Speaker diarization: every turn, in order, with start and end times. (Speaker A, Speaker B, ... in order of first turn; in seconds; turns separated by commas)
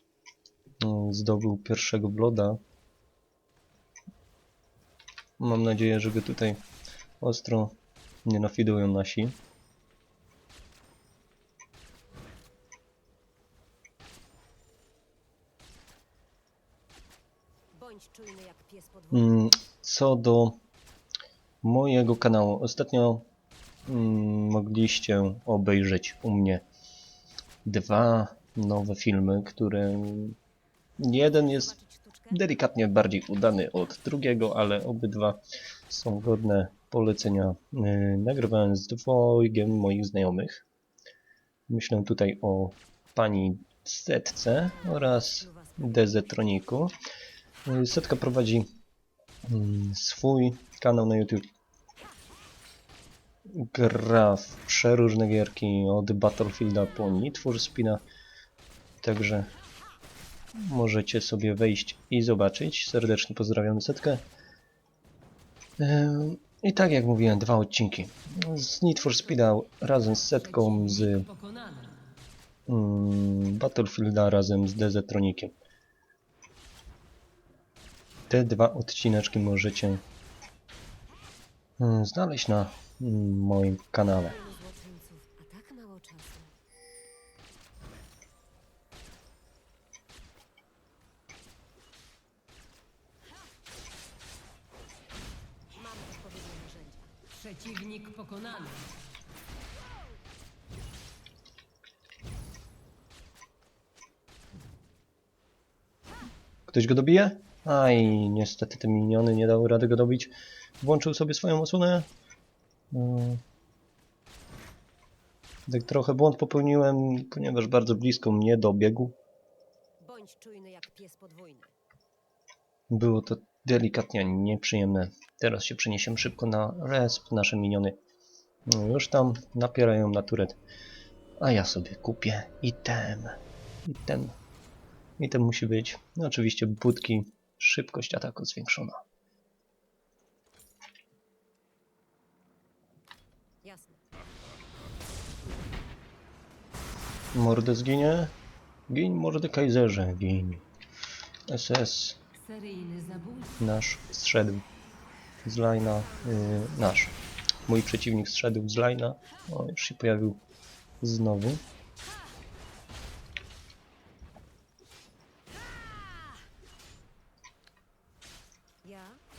Speaker A: 0.8-2.6, Speaker A: 5.4-6.6, Speaker A: 7.2-9.4, Speaker B: 17.7-19.4, Speaker A: 19.1-20.6, Speaker A: 21.6-23.3, Speaker A: 23.9-26.6, Speaker A: 27.6-30.4, Speaker A: 31.0-31.8, Speaker B: 31.1-32.6, Speaker A: 32.3-40.6, Speaker A: 41.7-46.9, Speaker B: 44.6-46.6, Speaker A: 47.7-48.7, Speaker A: 49.5-51.5, Speaker A: 53.5-58.0, Speaker A: 59.0-59.5, Speaker A: 60.5-64.2, Speaker A: 65.8-71.3, Speaker C: 70.3-72.1, Speaker A: 72.7-75.5, Speaker A: 78.3-80.0, Speaker A: 81.8-84.4, Speaker B: 84.2-86.5, Speaker B: 95.7-97.2, Speaker C: 97.3-98.9, Speaker A: 106.7-112.1, Speaker A: 112.9-113.4, Speaker A: 115.7-119.2, Speaker B: 120.0-121.7, Speaker A: 122.9-128.0, Speaker A: 128.7-130.6, Speaker A: 131.4-134.4, Speaker A: 135.2-139.0, Speaker B: 143.6-144.0, Speaker A: 147.3-148.3, Speaker A: 148.9-150.7, Speaker A: 151.5-152.2, Speaker C: 152.3-153.6, Speaker A: 153.6-154.7, Speaker A: 155.4-157.2, Speaker B: 155.9-156.8, Speaker A: 157.7-160.4, Speaker A: 161.0-161.6, Speaker B: 168.8-169.2